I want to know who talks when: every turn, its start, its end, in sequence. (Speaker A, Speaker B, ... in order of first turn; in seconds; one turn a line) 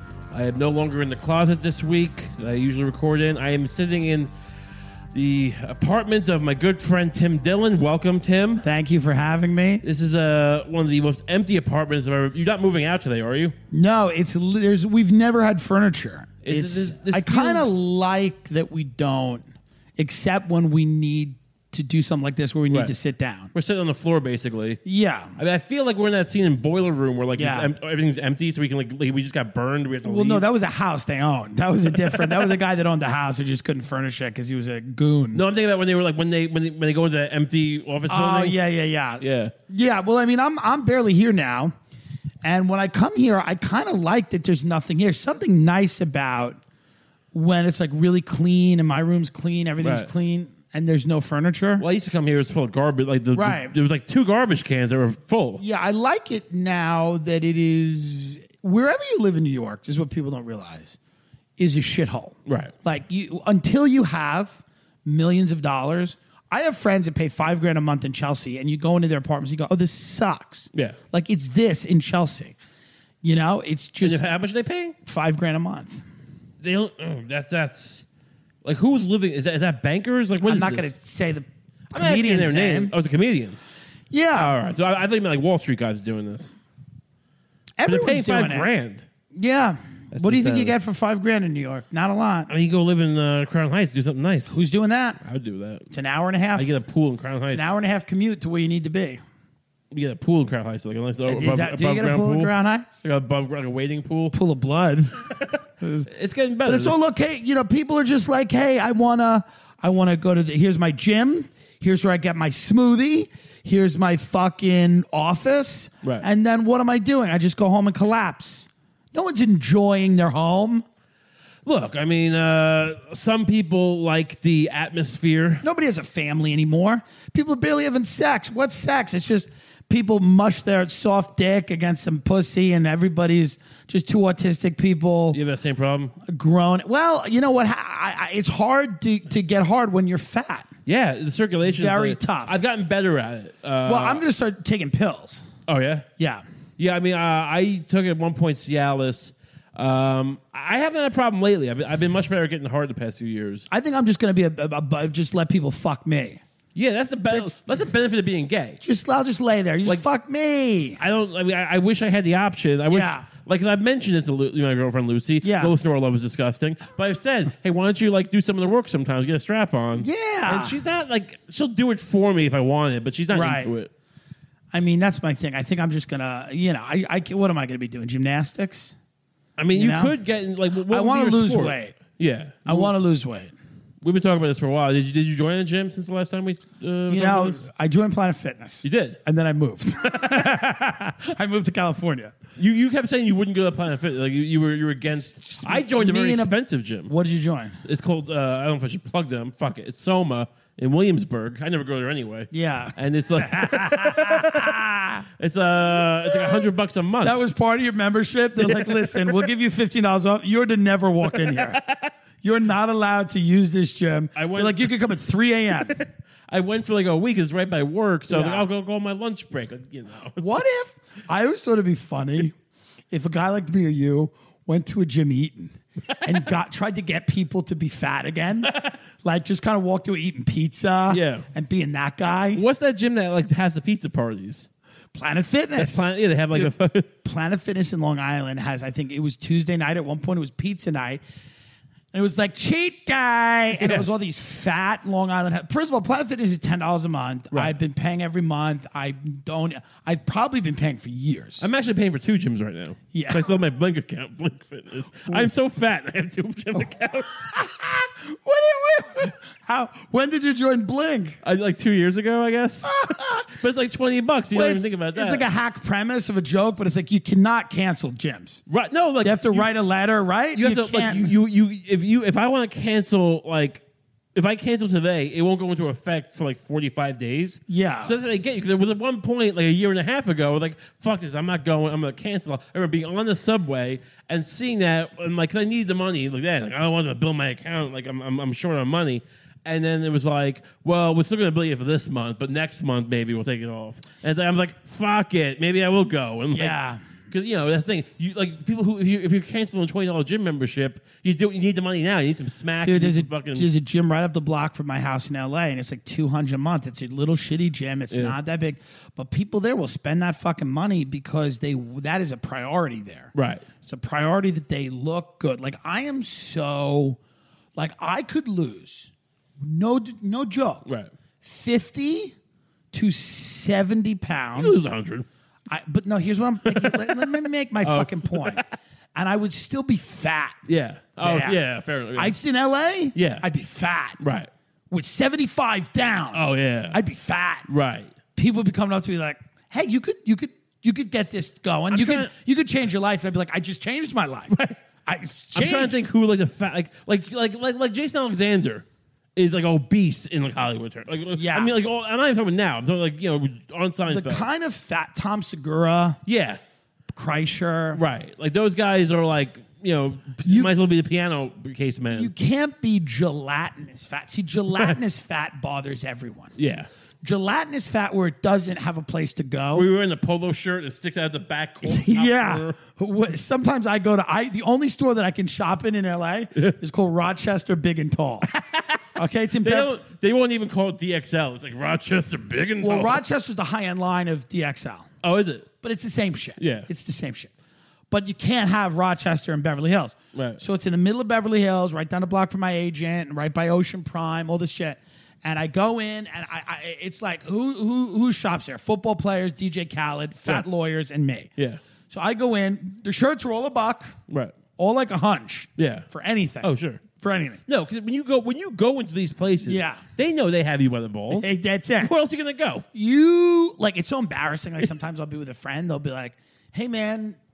Speaker A: 0.3-4.3
Speaker A: 5.1-8.6
Speaker B: 8.6-9.8
Speaker A: 9.8-13.6
Speaker B: 13.7-19.4
Speaker A: 16.4-17.7
Speaker B: 20.0-23.5
Speaker A: 23.5-24.8
Speaker B: 24.8-25.4
Speaker A: 25.4-30.4
Speaker B: 27.4-27.7
Speaker B: 30.0-35.4
Speaker A: 31.9-32.5
Speaker A: 35.3-38.6
Speaker B: 38.1-41.7
Speaker A: 39.2-39.5
Speaker B: 42.4-46.6
Speaker B: 47.3-51.8
Speaker A: 49.8-50.1
Speaker A: 51.8-55.6
Speaker B: 53.3-53.8
Speaker B: 55.6-61.0
Speaker B: 61.6-72.5
Speaker A: 62.5-62.7
Speaker A: 70.7-71.0
Speaker B: 73.2-74.3
Speaker A: 74.0-75.0
Speaker B: 75.0-76.0
Speaker A: 76.6-78.0
Speaker A: 78.6-80.9
Speaker B: 80.4-82.9
Speaker A: 81.9-83.6
Speaker B: 84.1-84.5
Speaker A: 84.3-86.5
Speaker B: 87.8-88.7
Speaker A: 87.8-89.1
Speaker B: 89.3-92.5
Speaker A: 90.1-90.7
Speaker A: 92.5-94.6
Speaker B: 94.5-95.2
Speaker A: 95.2-95.9
Speaker B: 95.9-96.8
Speaker A: 96.5-97.7
Speaker B: 97.5-99.2
Speaker A: 99.9-104.3
Speaker B: 101.3-103.0
Speaker B: 104.3-105.2
Speaker A: 105.4-107.0
Speaker B: 105.8-106.1
Speaker B: 106.6-120.8
Speaker A: 121.6-125.6
Speaker B: 125.6-135.4
Speaker A: 135.3-136.2
Speaker B: 136.2-140.7
Speaker A: 140.8-144.2
Speaker B: 141.6-142.6
Speaker B: 143.8-145.5
Speaker A: 145.7-146.1
Speaker B: 146.2-146.4
Speaker A: 146.8-153.7
Speaker B: 153.7-156.4
Speaker A: 156.7-158.8
Speaker B: 157.3-157.6
Speaker B: 158.8-161.0
Speaker A: 161.0-173.9
Speaker B: 162.9-163.2
Speaker B: 165.4-165.7
Speaker B: 170.0-170.8
Speaker B: 173.3-173.7
Speaker B: 174.7-178.9
Speaker A: 179.6-182.9
Speaker B: 179.7-180.2
Speaker B: 180.7-182.0
Speaker B: 182.7-183.5
Speaker A: 184.0-187.7
Speaker B: 187.1-192.4
Speaker A: 188.8-189.2
Speaker A: 192.6-197.1
Speaker B: 195.3-196.6
Speaker B: 197.1-197.8
Speaker A: 197.8-204.8
Speaker B: 202.5-205.2
Speaker A: 205.3-207.4
Speaker B: 206.3-206.7
Speaker B: 207.2-211.8
Speaker A: 208.6-209.4
Speaker A: 211.3-212.1
Speaker B: 212.4-216.0
Speaker A: 214.3-214.9
Speaker A: 215.8-220.5
Speaker B: 218.3-218.7
Speaker B: 220.4-222.5
Speaker B: 223.1-232.6
Speaker A: 226.1-226.4
Speaker A: 228.6-229.0
Speaker A: 231.1-231.5
Speaker A: 232.5-234.7
Speaker B: 235.1-241.2
Speaker A: 235.8-237.1
Speaker B: 242.1-251.7
Speaker A: 243.8-244.1
Speaker A: 251.6-257.5
Speaker B: 253.1-253.6
Speaker B: 256.8-261.4
Speaker A: 261.4-262.9
Speaker B: 262.8-263.5
Speaker A: 263.5-265.4
Speaker B: 264.5-268.6
Speaker A: 268.7-269.7
Speaker B: 269.2-271.3
Speaker A: 270.5-273.8
Speaker A: 274.3-296.8
Speaker B: 277.7-278.1
Speaker B: 296.5-297.0
Speaker A: 297.3-303.7
Speaker B: 302.8-317.2
Speaker A: 313.3-313.6
Speaker B: 317.7-320.9
Speaker A: 320.9-321.1
Speaker B: 321.4-322.3
Speaker B: 322.9-324.9
Speaker A: 324.6-325.3
Speaker B: 325.7-330.6
Speaker A: 326.7-328.7
Speaker A: 330.7-332.3
Speaker B: 331.2-331.6
Speaker B: 332.1-334.2
Speaker A: 333.1-333.4
Speaker A: 334.2-334.5
Speaker B: 334.9-337.7
Speaker A: 336.3-337.0
Speaker A: 337.7-338.1
Speaker B: 338.4-344.5
Speaker A: 341.9-342.3
Speaker A: 344.5-344.8
Speaker B: 345.1-346.0
Speaker A: 345.5-354.5
Speaker B: 351.3-351.7
Speaker B: 354.1-356.2
Speaker A: 356.2-356.6
Speaker B: 357.1-358.0
Speaker A: 357.9-362.3
Speaker B: 360.4-360.7
Speaker B: 362.1-366.5
Speaker A: 366.6-366.9
Speaker B: 367.2-369.9
Speaker A: 369.7-372.8
Speaker B: 371.8-378.5
Speaker A: 378.5-383.2
Speaker B: 379.1-379.9
Speaker B: 382.8-385.1
Speaker A: 385.2-385.7
Speaker B: 385.8-387.5
Speaker A: 386.6-386.9
Speaker B: 388.1-401.5
Speaker A: 390.3-390.6
Speaker B: 402.1-404.2
Speaker A: 404.3-404.5
Speaker B: 404.8-407.6
Speaker A: 405.8-406.1
Speaker A: 406.6-407.0
Speaker A: 407.6-412.9
Speaker B: 409.6-410.0
Speaker B: 411.3-412.1
Speaker B: 412.9-417.4